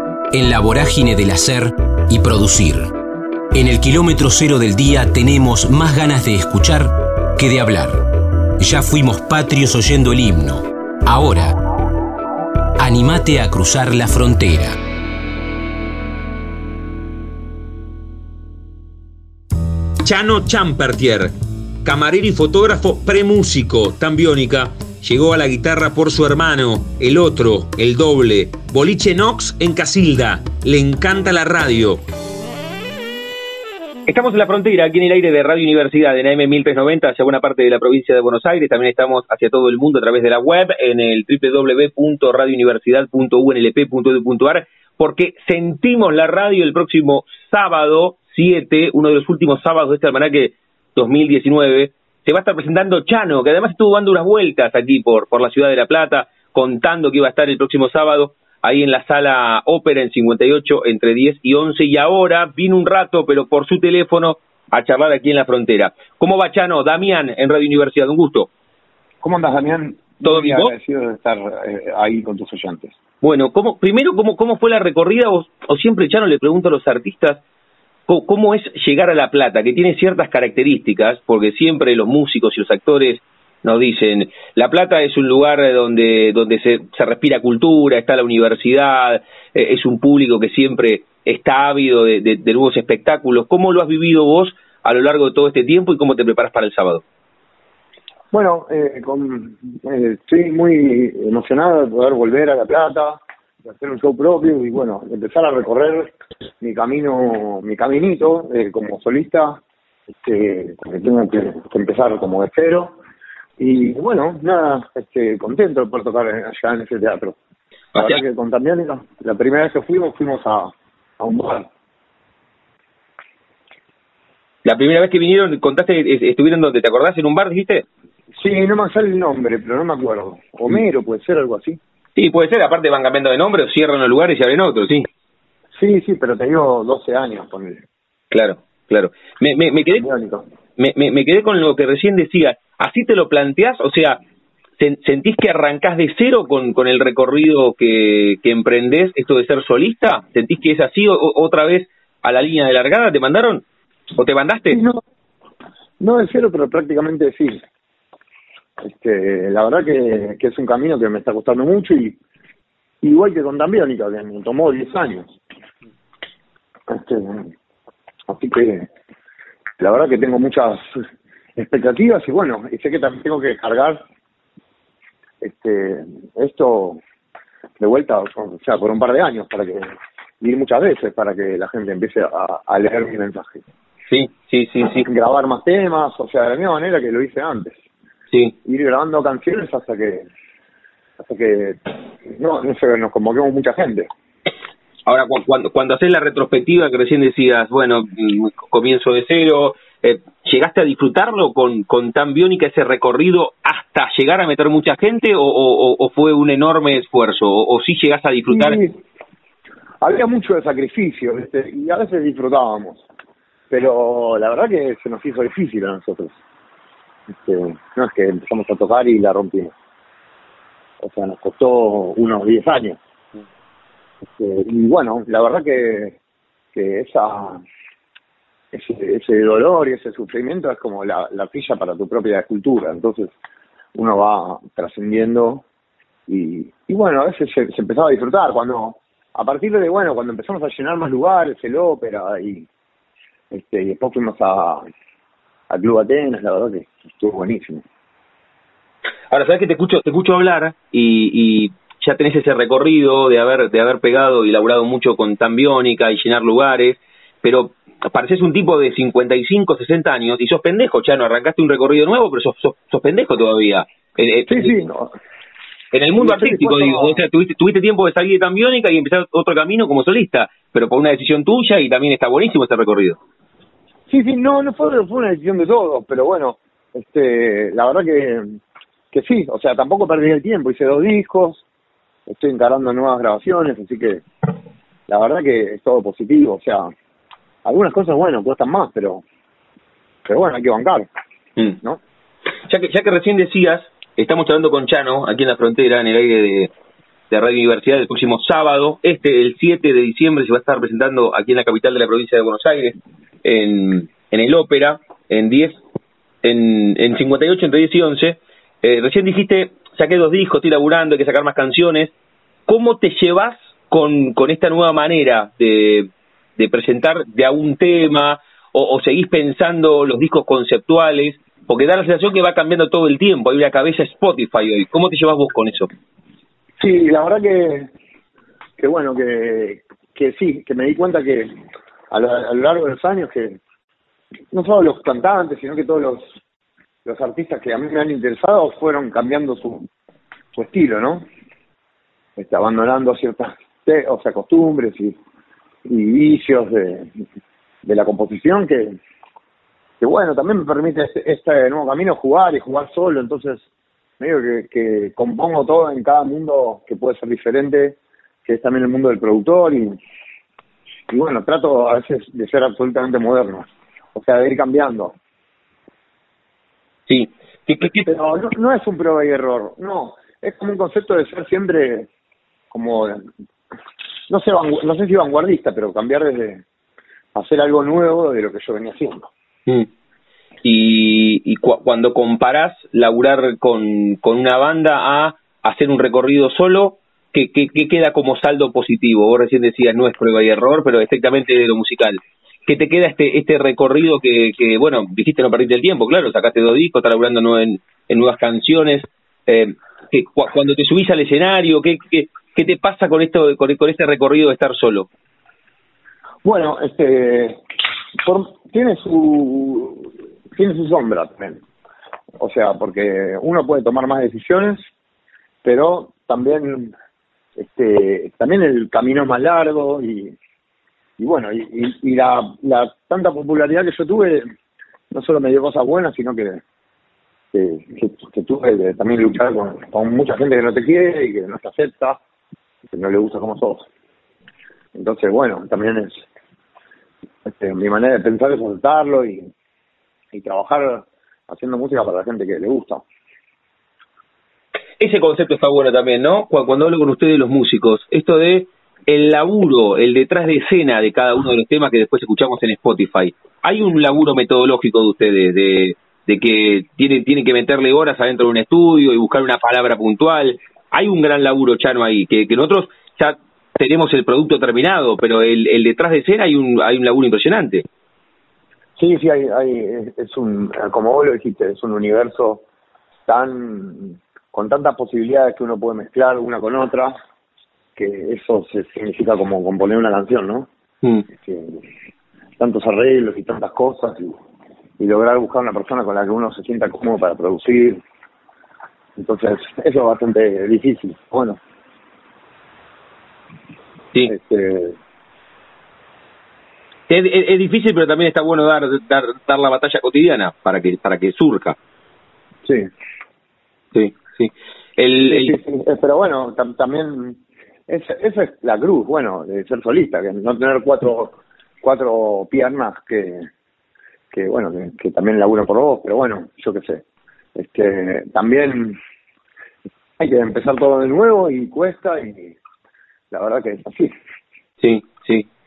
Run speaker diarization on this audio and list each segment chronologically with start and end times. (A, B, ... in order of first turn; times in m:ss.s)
0:00.3-0:02.9 A
0:03.5-0:08.0 A
0:08.6-0:11.5 A
0:12.8-0:14.8 A
0:20.0-0:32.0 B
0:34.1-1:08.5 B
1:09.2-1:12.9 C
1:10.2-1:10.7 B
1:13.2-1:17.4 B
1:18.1-1:37.0 B
1:38.3-1:49.6 C
1:50.2-1:53.0 C
1:53.6-1:57.4 C
1:57.9-1:58.2 B
1:58.0-2:01.7 C
2:04.6-2:07.8 B
2:08.4-2:11.8 C
2:12.2-2:15.1 B
2:15.8-2:17.8 C
2:18.3-2:20.0 B
2:19.9-2:20.5 C
2:20.8-2:24.2 B
2:24.8-2:33.6 B
2:34.2-2:34.8 B
2:34.7-2:35.0 C
2:36.0-2:37.6 C
2:38.8-2:42.2 C
2:43.0-2:45.3 C
2:46.9-2:47.5 C
2:48.3-2:48.9 C
2:49.8-2:51.0 C
2:51.6-2:54.0 C
2:55.4-2:57.0 C
2:57.8-2:59.8 C
3:00.4-3:03.6 C
3:04.1-3:05.1 B
3:05.0-3:07.8 C
3:08.6-3:10.3 C
3:11.2-3:14.1 C
3:15.0-3:28.8 B
3:28.5-3:29.0 C
3:30.0-3:33.0 C
3:33.7-3:36.3 C
3:37.3-3:39.7 C
3:41.0-3:43.0 C
3:44.4-3:46.2 C
3:46.7-3:47.6 C
3:48.7-3:53.3 C
3:53.9-3:55.6 C
3:56.3-4:02.7 C
4:03.5-4:04.8 C
4:05.7-4:07.8 C
4:09.3-4:24.7 B
4:24.5-4:25.1 C
4:25.9-4:33.2 B
4:26.2-4:27.2 C
4:34.1-4:38.5 C
4:39.1-4:41.6 C
4:42.3-4:44.2 C
4:45.1-4:46.9 C
4:47.6-4:49.2 C
4:50.2-4:51.1 C
4:52.7-4:56.7 B
4:57.3-5:05.8 B
5:06.4-5:12.1 B
5:12.7-5:25.9 B
5:26.8-5:27.9 C
5:28.8-5:31.5 C
5:32.1-5:33.6 C
5:34.5-5:36.3 C
5:37.0-5:39.9 C
5:40.5-5:41.2 C
5:42.4-5:45.2 C
5:45.8-5:47.1 C
5:47.8-5:49.0 C
5:50.0-5:53.6 C
5:54.2-6:00.0 C
6:01.1-6:05.2 C
6:07.1-6:08.1 B
6:08.0-6:12.1 C
6:12.7-6:13.2 C
6:14.3-6:16.6 C
6:17.3-6:19.3 C
6:20.6-6:45.1 B
6:46.4-6:47.6 C
6:48.2-6:51.6 C
6:52.4-6:54.8 C
6:55.6-6:56.9 C
6:57.6-7:00.3 C
7:01.2-7:04.5 C
7:05.1-7:06.6 C
7:07.5-7:12.2 C
7:12.9-7:13.9 C
7:14.9-7:16.2 C
7:17.4-7:19.5 C
7:20.3-7:23.0 C
7:25.0-7:47.8 B
7:49.0-7:52.6 C
7:53.3-7:57.2 C
7:58.0-8:00.7 C
8:01.4-8:01.8 C
8:02.6-8:04.4 C
8:05.0-8:08.0 C
8:09.2-8:11.6 C
8:14.3-8:15.0 C
8:17.1-8:21.8 B
8:23.9-8:25.5 B
8:25.3-8:33.5 C
8:34.3-8:37.0 C
8:37.6-8:39.0 C
8:40.2-8:42.6 C
8:43.3-8:44.1 C
8:44.8-8:45.5 B